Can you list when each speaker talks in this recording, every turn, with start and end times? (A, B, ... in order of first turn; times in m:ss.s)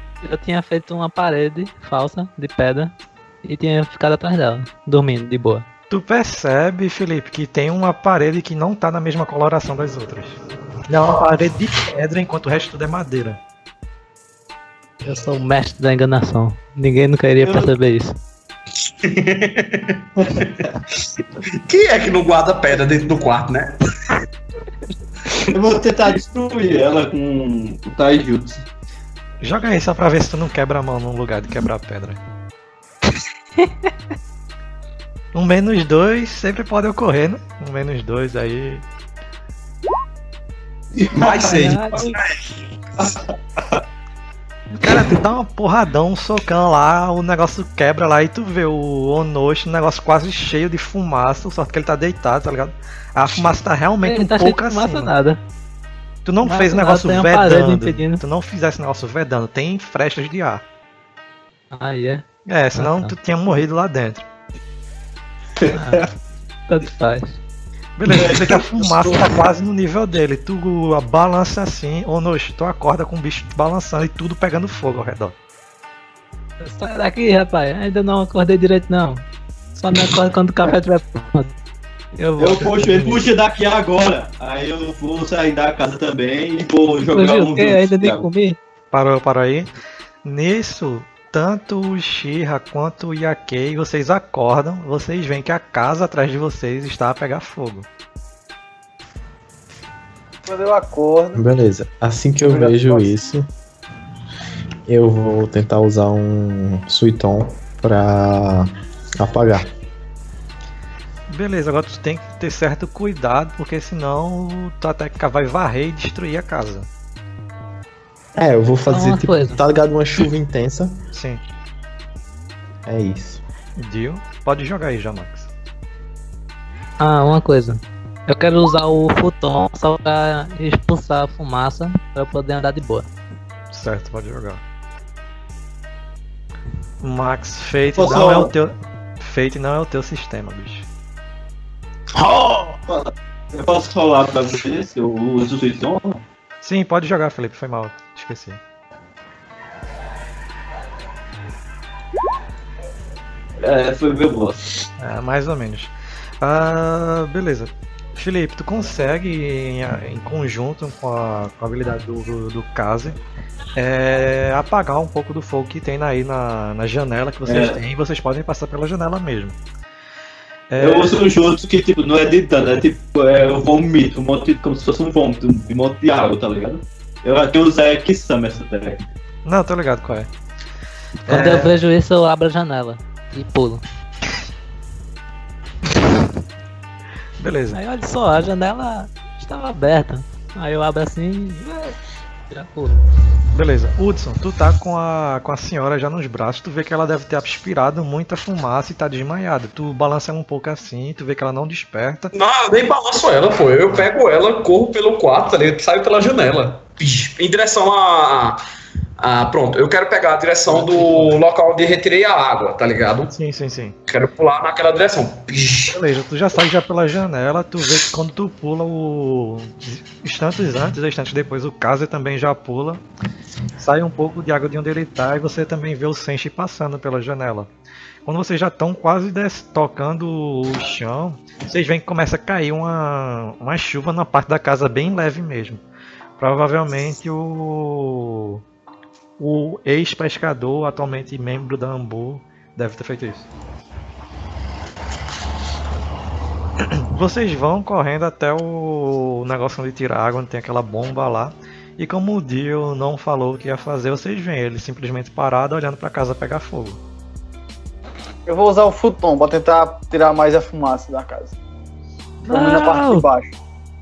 0:00.2-0:05.6 A
0:05.9-0:13.4 B
0:15.0-0:18.1 A
0:17.4-0:17.7 C
0:18.8-0:23.8 D
0:20.4-0:20.6 C
0:25.5-0:28.6 C
0:29.4-0:32.2 B
0:35.3-0:38.8 B
0:41.0-0:41.7 C
0:41.1-0:42.5 D
0:41.4-0:42.2 A
0:43.0-0:43.8 C
0:44.8-0:55.1 B
0:54.0-0:55.4 A
0:56.2-1:00.6 B
0:56.4-0:58.2 A
1:01.7-1:03.1 A
1:02.4-1:04.2 B
1:05.6-1:06.1 C
1:05.7-1:06.1 A
1:06.7-1:07.4 A
1:08.0-1:15.4 B
1:08.1-1:09.2 C
1:16.6-1:19.2 A
1:19.8-1:21.5 A
1:22.2-1:22.7 A
1:22.4-1:28.3 C
1:22.8-1:23.2 B
1:27.1-1:28.6 A
1:28.9-1:29.7 B
1:30.2-1:37.9 B
1:40.4-1:41.4 E
1:41.3-1:43.5 F
1:42.4-1:43.2 E
1:44.9-1:49.7 F
1:51.3-1:56.9 B
1:58.4-2:01.0 F
1:58.9-1:59.6 A
2:01.1-2:01.4 B
2:02.8-2:03.4 F
2:03.8-2:05.5 B
2:07.0-2:13.1 A
2:13.7-2:14.6 B
2:17.0-2:20.9 B
2:17.9-2:18.5 C
2:22.9-2:26.2 C
2:26.6-2:28.6 B
2:33.6-2:34.7 C
2:35.0-2:43.2 B
2:43.8-2:49.6 B
2:47.4-2:47.8 C
2:50.7-2:51.2 B
2:50.8-2:59.0 C
2:59.4-3:00.3 B
3:01.3-3:01.7 B
3:01.3-3:03.8 A
3:07.4-3:07.8 B
3:07.7-3:12.0 A
3:12.5-3:13.0 A
3:13.5-3:22.3 B
3:22.3-3:28.6 D
3:29.2-3:33.3 D
3:30.7-3:31.4 B
3:33.3-3:34.0 B
3:34.1-3:36.0 D
3:35.9-3:43.0 B
3:43.8-3:47.7 B
3:48.2-3:55.8 B
3:56.4-3:58.6 B
3:59.4-4:03.5 B
4:06.8-4:17.0 B
4:18.4-4:21.6 E
4:22.5-4:23.5 E
4:22.5-4:23.3 A